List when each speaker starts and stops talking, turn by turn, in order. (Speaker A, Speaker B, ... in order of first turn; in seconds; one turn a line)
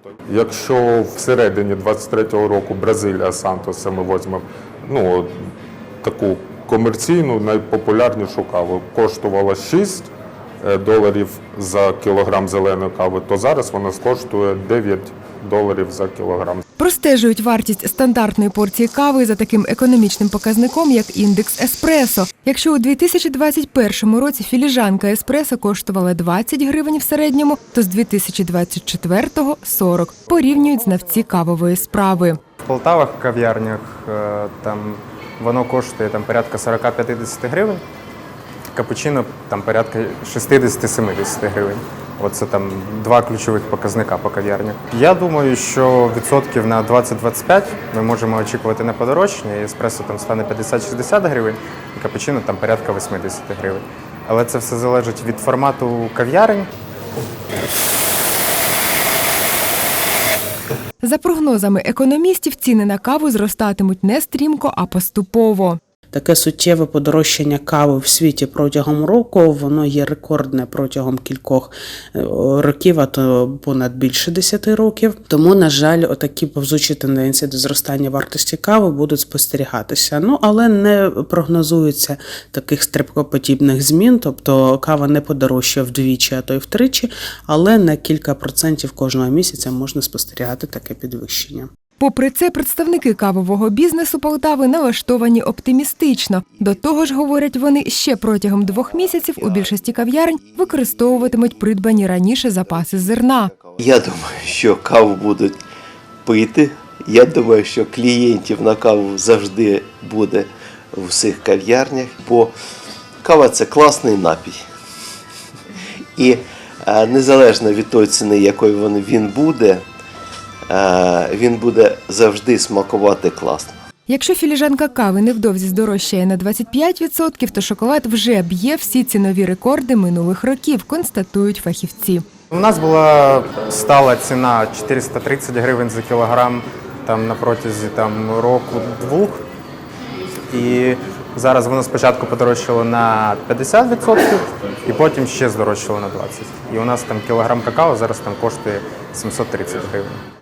Speaker A: 0.3-5.5
Speaker A: 6.0-10.1
Speaker A: 10.6-16.6
Speaker B: 16.8-32.4
Speaker C: 32.6-37.8
Speaker C: 38.7-56.7
Speaker B: 61.0-65.8
Speaker D: 66.1-91.7
Speaker B: 92.0-103.5
Speaker E: 98.9-101.5
Speaker E: 102.9-105.6
Speaker E: 106.2-112.5
Speaker E: 113.2-114.6
Speaker E: 116.2-119.8
Speaker E: 120.7-123.8
Speaker B: 124.1-132.2
Speaker C: 132.5-139.4
Speaker C: 140.5-150.2